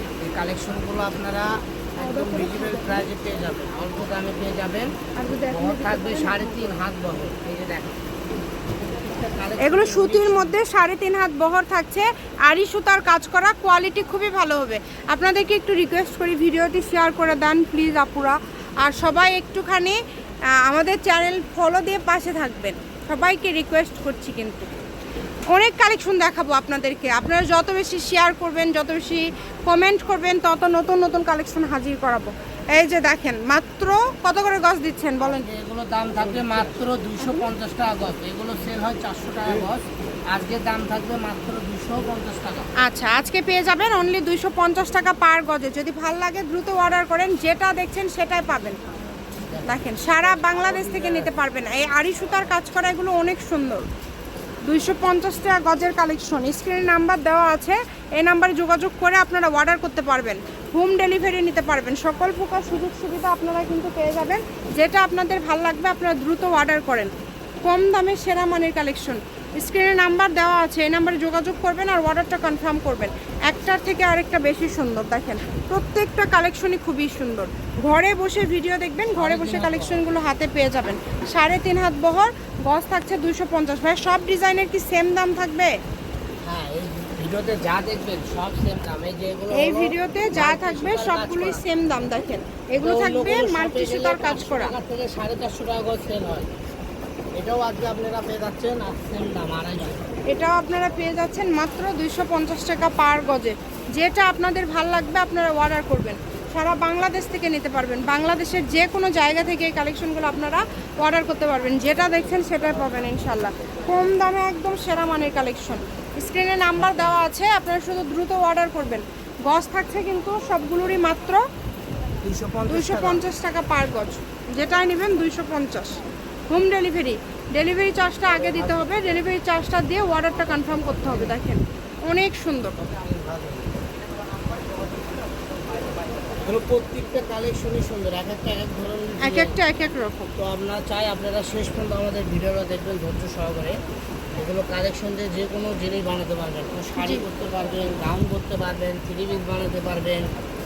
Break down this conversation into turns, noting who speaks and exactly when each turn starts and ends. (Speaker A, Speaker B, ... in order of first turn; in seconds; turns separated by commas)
Speaker A: 0.2-4.9, Speaker B: 2.0-3.0, Speaker B: 5.2-6.8, Speaker A: 5.5-8.0, Speaker A: 8.9-10.5, Speaker B: 9.6-20.0, Speaker B: 20.6-24.8, Speaker B: 25.5-35.5, Speaker A: 35.2-42.7, Speaker B: 37.2-37.5, Speaker B: 42.8-48.8, Speaker A: 49.5-51.3, Speaker B: 49.6-53.9, Speaker B: 54.7-67.1, Speaker B: 67.6-85.8, Speaker A: 79.2-80.1, Speaker A: 86.4-91.6, Speaker B: 89.5-94.7, Speaker A: 92.8-96.5, Speaker A: 97.4-100.1, Speaker B: 100.3-121.4, Speaker A: 116.8-117.3, Speaker A: 122.2-123.3, Speaker B: 122.7-132.8, Speaker A: 128.4-129.0, Speaker A: 131.1-131.4, Speaker A: 132.8-133.8, Speaker A: 136.4-139.5, Speaker B: 139.2-140.3, Speaker A: 140.4-143.8, Speaker A: 144.4-150.3, Speaker B: 147.0-147.2